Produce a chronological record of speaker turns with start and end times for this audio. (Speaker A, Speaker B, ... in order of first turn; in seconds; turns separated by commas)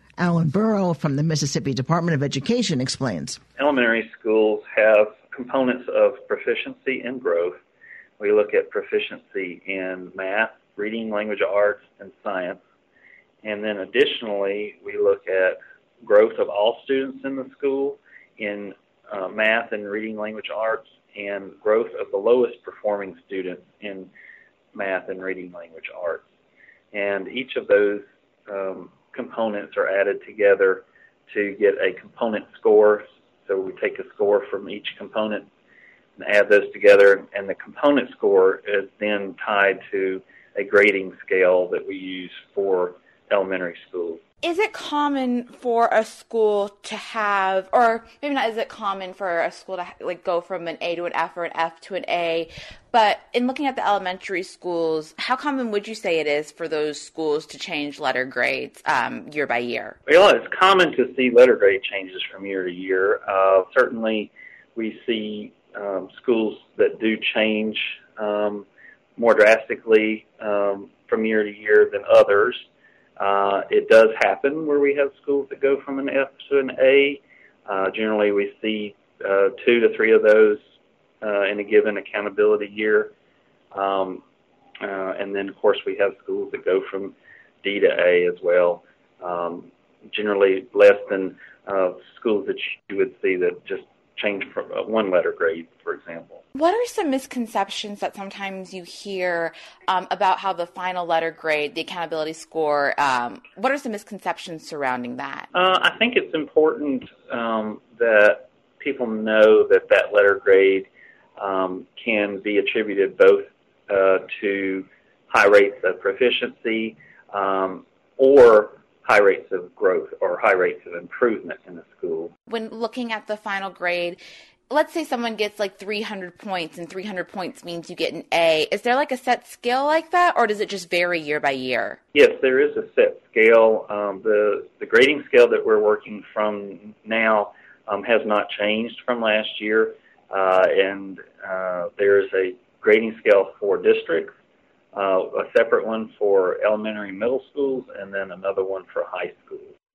Speaker A: 0.2-3.4, Speaker B: 3.6-7.6, Speaker B: 8.2-12.6, Speaker B: 13.4-24.1, Speaker B: 24.7-26.2, Speaker B: 26.9-35.5, Speaker B: 36.2-44.2, Speaker C: 44.4-60.0, Speaker B: 60.1-68.7, Speaker B: 69.2-72.6, Speaker B: 73.2-80.6, Speaker B: 81.2-83.1, Speaker B: 83.7-84.2, Speaker B: 84.8-96.4, Speaker C: 96.5-105.5, Speaker B: 105.5-122.3, Speaker C: 122.5-132.0, Speaker B: 132.1-144.3, Speaker B: 144.9-149.7